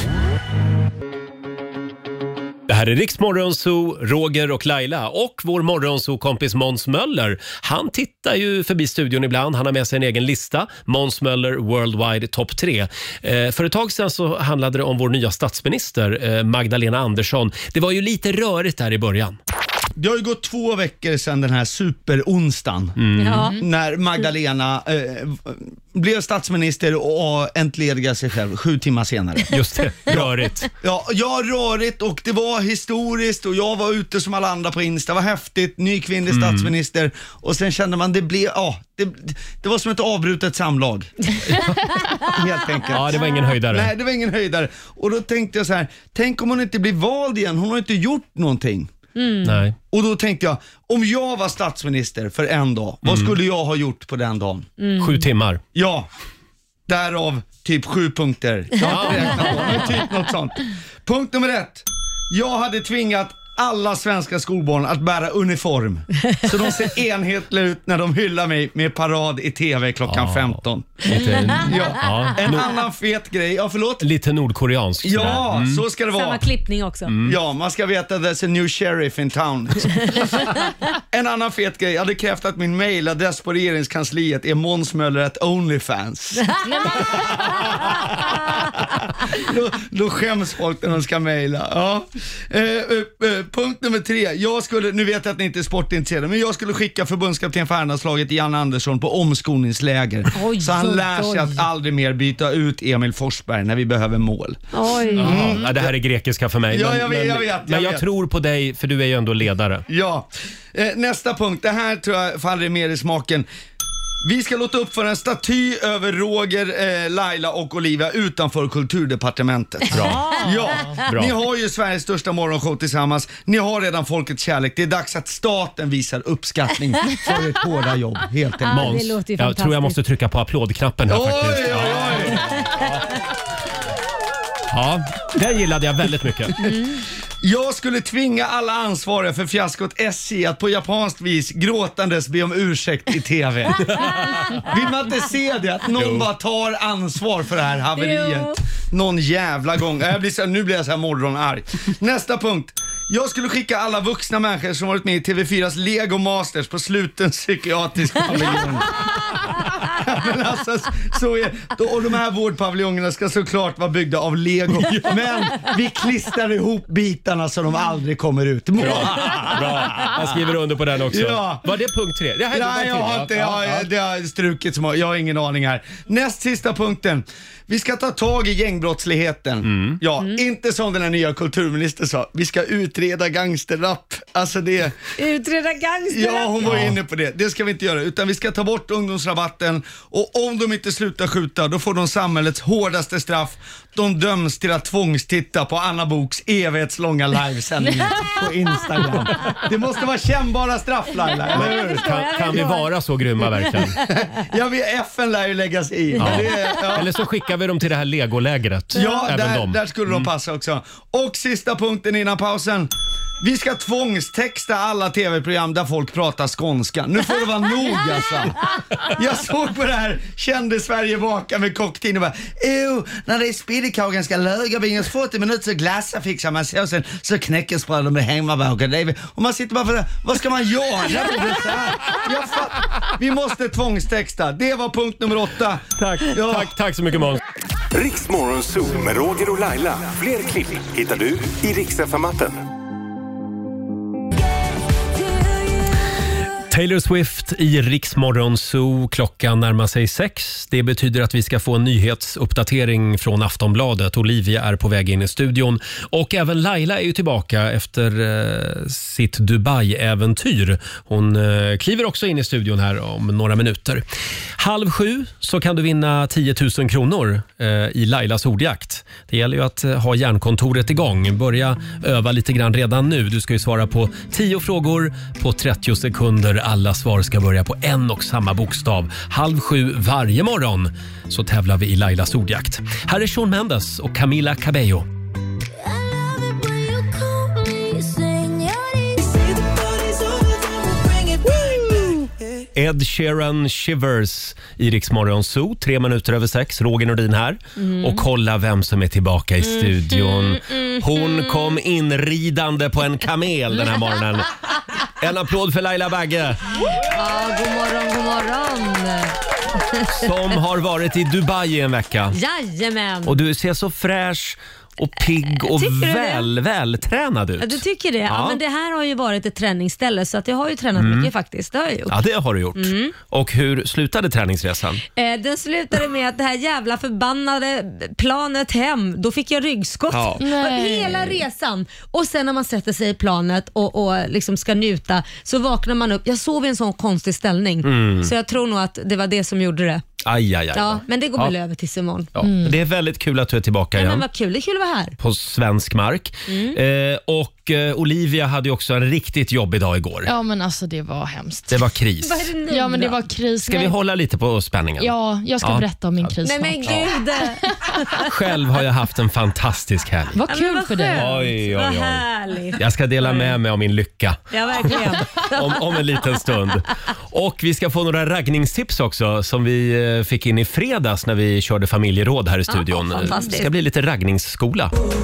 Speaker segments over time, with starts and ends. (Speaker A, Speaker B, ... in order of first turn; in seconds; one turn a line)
Speaker A: 2.7-19.4
Speaker B: 20.0-29.5
Speaker A: 23.0-23.5
Speaker C: 23.2-23.6
Speaker A: 29.5-30.7
Speaker B: 30.1-41.1
Speaker A: 36.3-36.7
Speaker A: 41.5-42.0
Speaker B: 42.3-48.9
Speaker A: 42.9-43.9
Speaker C: 49.2-49.6
Speaker A: 49.4-49.8
Speaker B: 49.9-54.7
Speaker A: 53.0-53.3
Speaker C: 54.8-55.2
Speaker A: 55.0-55.6
Speaker B: 55.8-56.1
Speaker B: 56.9-74.0
Speaker A: 58.8-59.9
Speaker A: 70.1-72.7
Speaker A: 74.0-75.8
Speaker B: 75.0-76.4
Speaker C: 76.1-77.1
Speaker A: 77.1-77.4
Speaker B: 77.2-80.5
Speaker B: 81.1-104.6
Speaker C: 86.6-87.8
Speaker C: 100.3-101.6
Speaker C: 104.7-105.5
Speaker B: 105.2-105.9
Speaker A: 105.2-109.8
Speaker B: 106.7-108.0
Speaker B: 109.9-113.5
Speaker B: 114.2-129.0
Speaker A: 119.9-120.4
Speaker A: 121.0-121.3
Speaker C: 128.6-130.0
Speaker A: 128.7-132.8
Speaker B: 131.1-132.4
Speaker A: 134.7-136.8
Speaker C: 136.7-137.0
Speaker B: 137.4-143.9
Speaker A: 143.9-144.6
Speaker B: 144.7-158.9
Speaker A: 146.0-146.3
Speaker C: 148.0-148.6
Speaker B: 159.9-170.2
Speaker A: 168.8-173.9
Speaker B: 171.1-171.7
Speaker B: 172.5-185.0
Speaker A: 179.7-180.0
Speaker C: 185.2-186.7
Speaker B: 186.1-202.7
Speaker A: 186.7-186.9
Speaker C: 201.5-204.0
Speaker A: 201.5-204.0
Speaker B: 204.0-207.1
Speaker A: 206.2-210.3
Speaker C: 206.3-206.8
Speaker B: 208.9-236.7
Speaker A: 236.0-237.4
Speaker D: 237.9-242.6
Speaker A: 246.7-264.0
Speaker A: 264.6-285.1
Speaker D: 289.2-292.0
Speaker A: 292.8-304.5
Speaker C: 297.8-298.2
Speaker C: 299.6-301.8
Speaker A: 305.2-306.6
Speaker C: 307.0-310.3
Speaker A: 310.1-312.4
Speaker C: 312.3-313.4
Speaker A: 313.2-318.6
Speaker C: 315.6-316.5
Speaker C: 317.6-322.2
Speaker A: 321.0-321.3
Speaker A: 322.1-325.0
Speaker C: 322.8-323.1
Speaker C: 325.2-340.2
Speaker A: 330.1-330.4
Speaker E: 330.4-331.4
Speaker A: 337.8-338.3
Speaker A: 340.2-341.5
Speaker C: 340.7-342.3
Speaker A: 342.4-344.2
Speaker E: 342.4-342.8
Speaker C: 343.9-345.2
Speaker A: 345.2-350.3
Speaker C: 346.5-346.8
Speaker E: 350.3-351.9
Speaker A: 351.7-352.5
Speaker C: 352.2-353.2
Speaker E: 352.7-353.9
Speaker A: 353.6-355.9
Speaker E: 355.0-357.1
Speaker C: 356.4-358.3
Speaker A: 356.8-357.2
Speaker A: 358.2-360.4
Speaker E: 360.4-361.3
Speaker C: 360.5-363.6
Speaker A: 361.1-374.9
Speaker C: 364.5-366.4
Speaker C: 372.7-373.7